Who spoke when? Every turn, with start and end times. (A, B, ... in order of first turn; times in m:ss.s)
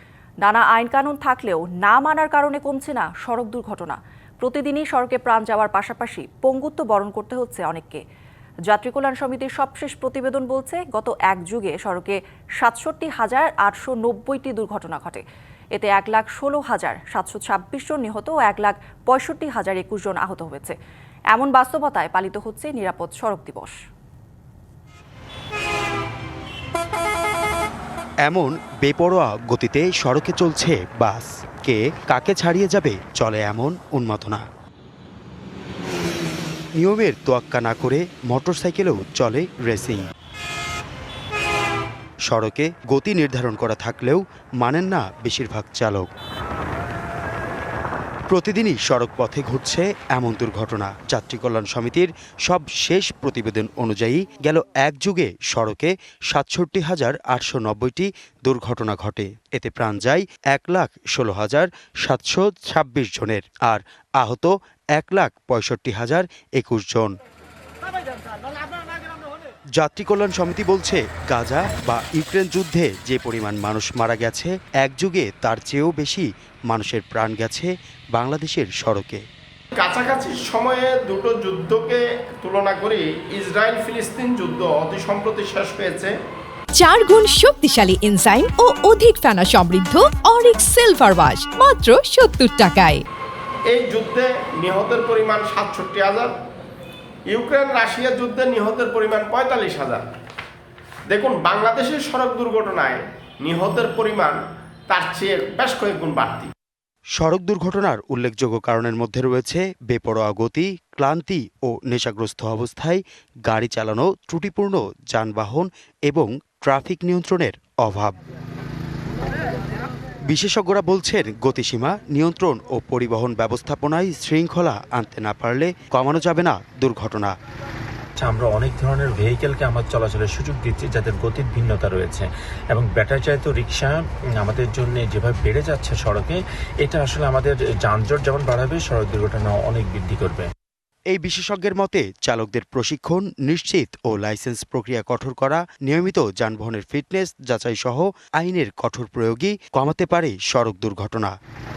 0:00.4-0:08.0 A
0:08.7-0:15.2 A
0:15.7-0:20.8 A
0:21.3-0:23.8 A
0:28.3-0:34.4 B
0:36.8-0:40.1 B
0:42.2-0:46.1 B
0:48.3-1:07.1 B
1:09.8-1:19.2 B
1:19.7-1:26.1 C
1:26.7-1:33.0 D
1:33.7-1:36.3 C
1:37.3-1:40.0 C
1:41.1-1:46.5 C
1:47.2-1:58.2 B
2:00.3-2:07.3 B
2:08.2-2:20.5 E
2:21.1-2:31.3 B